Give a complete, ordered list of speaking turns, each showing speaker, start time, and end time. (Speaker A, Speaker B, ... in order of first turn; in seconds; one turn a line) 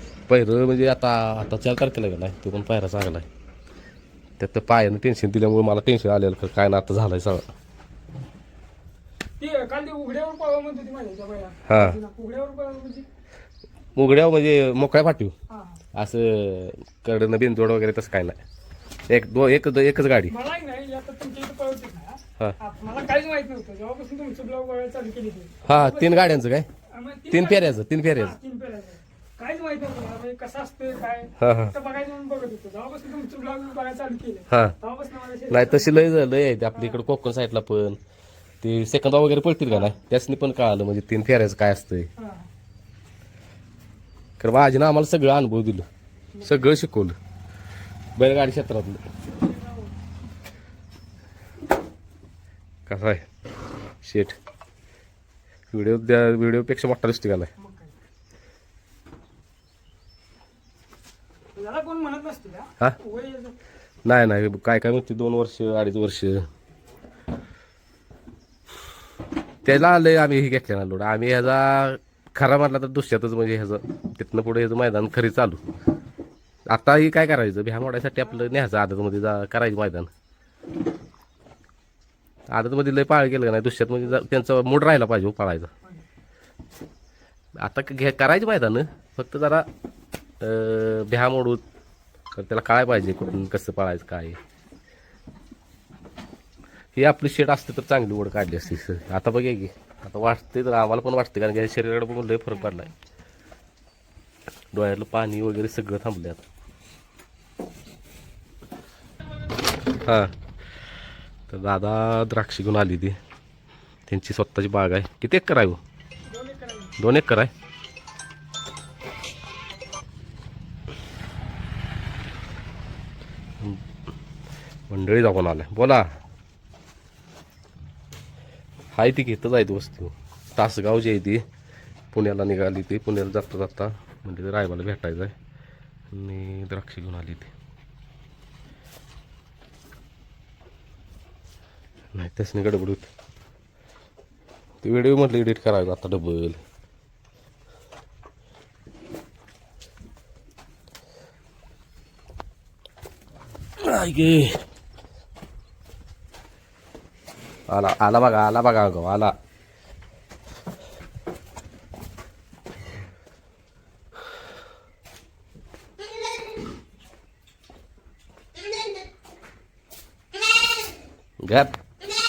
Speaker A: 0.3-3.3
Speaker A: 4.4-7.5
Speaker B: 9.4-13.1
Speaker A: 11.7-12.0
Speaker A: 13.9-15.3
Speaker B: 15.5-15.8
Speaker A: 15.9-18.4
Speaker A: 19.1-20.3
Speaker B: 20.3-26.3
Speaker A: 25.6-26.7
Speaker B: 26.9-36.1
Speaker A: 27.3-28.3
Speaker A: 31.4-31.7
Speaker A: 34.5-34.7
Speaker A: 35.5-38.0
Speaker B: 36.7-37.0
Speaker A: 38.6-42.1
Speaker B: 39.7-40.0
Speaker B: 42.2-42.5
Speaker A: 44.4-45.9
Speaker B: 46.3-46.7
Speaker A: 46.4-47.1
Speaker A: 48.2-49.0
Speaker B: 49.3-50.0
Speaker A: 52.9-53.2
Speaker A: 54.0-54.3
Speaker A: 55.7-57.5
Speaker B: 57.6-58.0
Speaker B: 61.5-63.5
Speaker A: 64.0-66.5
Speaker A: 69.6-75.6
Speaker A: 76.7-80.1
Speaker B: 78.2-78.6
Speaker A: 82.5-85.7
Speaker A: 87.6-89.7
Speaker A: 90.4-91.6
Speaker A: 92.3-94.4
Speaker A: 96.9-102.9
Speaker B: 102.5-102.9
Speaker A: 104.7-106.4
Speaker A: 110.0-110.3
Speaker A: 111.5-113.2
Speaker A: 114.1-115.8
Speaker B: 116.3-116.9
Speaker A: 117.0-117.5
Speaker A: 124.9-126.1
Speaker A: 128.9-131.4
Speaker A: 132.1-135.3
Speaker A: 136.1-137.5
Speaker A: 142.1-143.1
Speaker A: 144.8-146.6
Speaker A: 153.8-154.6
Speaker A: 157.7-159.3
Speaker A: 171.4-171.8